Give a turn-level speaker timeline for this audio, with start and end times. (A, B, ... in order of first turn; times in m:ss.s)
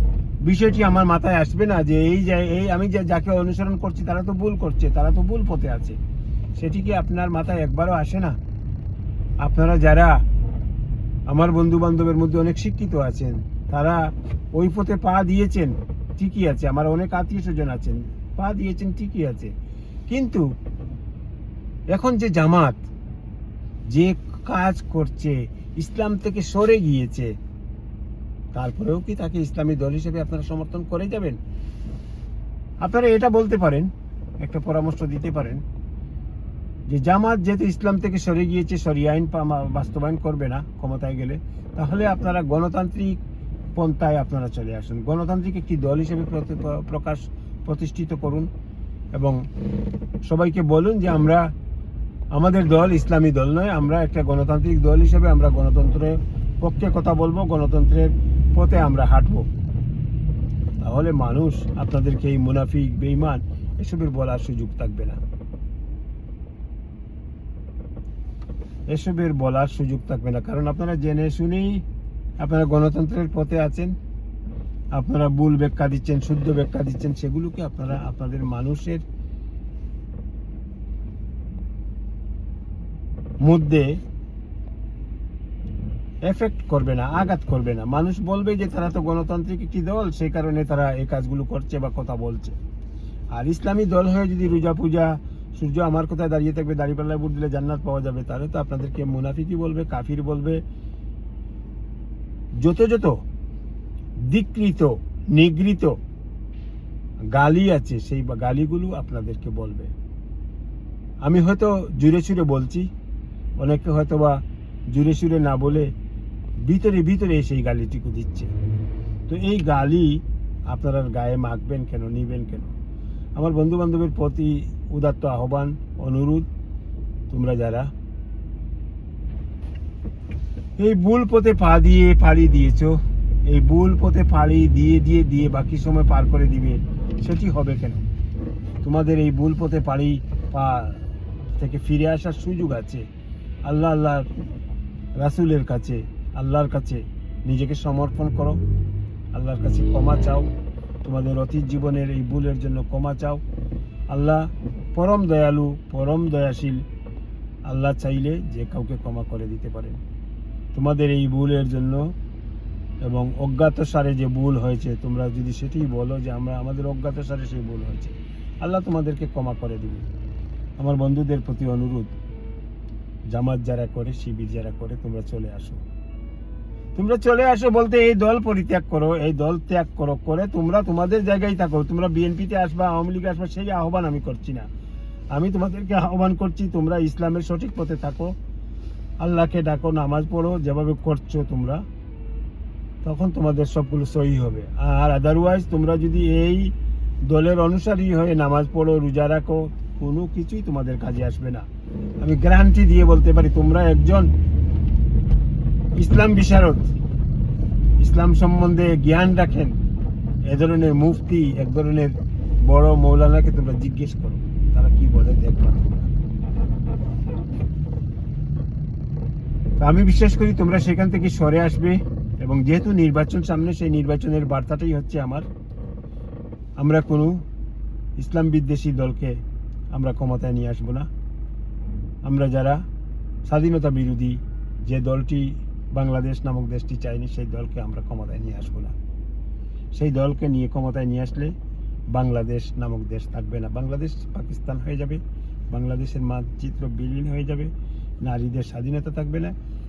0:00.4-0:06.0 A
0:06.6-0:08.4 A
0:09.4-0:10.2 A
0:11.3-0:14.0 A
0:14.5-0:19.5 A
0:20.1-0:20.4 A
0:21.9-0:22.8 A
0:23.9-0:27.3 A
0:28.5-0:31.4 A
0:32.8-0:33.9 A
0:34.4-0:35.6 A
0:36.9-0:43.2 A
0:43.8-0:48.5 A
0:49.1-0:49.4 A
0:50.2-0:51.5 A
0:52.3-0:59.5 A
1:00.8-1:05.2 A
1:08.9-1:11.8 A
1:12.4-1:13.9 A
1:14.9-1:19.0 A
1:23.4-1:23.9 A
1:26.3-1:32.6 A
1:33.3-1:40.6 A
1:42.6-1:43.2 A
1:44.3-1:46.0 A
1:47.3-1:49.9 A
1:51.2-1:52.9 A
1:53.6-1:54.4 A
1:54.9-1:55.9 A
1:56.6-1:58.5 A
1:59.3-2:00.2 A
2:00.7-2:02.7 A
2:03.4-2:06.5 A
2:07.3-2:07.9 A
2:10.8-2:18.0 A
2:18.8-2:23.0 A
2:23.7-2:24.3 A
2:25.2-2:28.6 A
2:29.3-2:30.5 A
2:31.0-2:33.4 A
2:34.1-2:36.8 A
2:37.6-2:40.0 A
2:40.7-2:42.1 A
2:43.0-2:50.1 A
2:50.8-2:52.1 A
2:53.3-2:55.8 A
2:56.9-3:04.7 A
3:05.3-3:08.3 A
3:09.2-3:11.8 A
3:13.0-3:16.7 A
3:17.2-3:21.6 A
3:22.2-3:24.3 A
3:26.0-3:26.9 A
3:28.0-3:29.8 A
3:30.4-3:36.1 A
3:39.8-3:45.4 A
3:46.8-3:47.4 A
3:48.2-3:49.4 A
3:49.9-3:51.1 A
3:52.2-3:52.8 A
3:53.4-3:58.9 A
3:59.9-4:01.5 A
4:02.1-4:07.7 A
4:08.2-4:09.5 A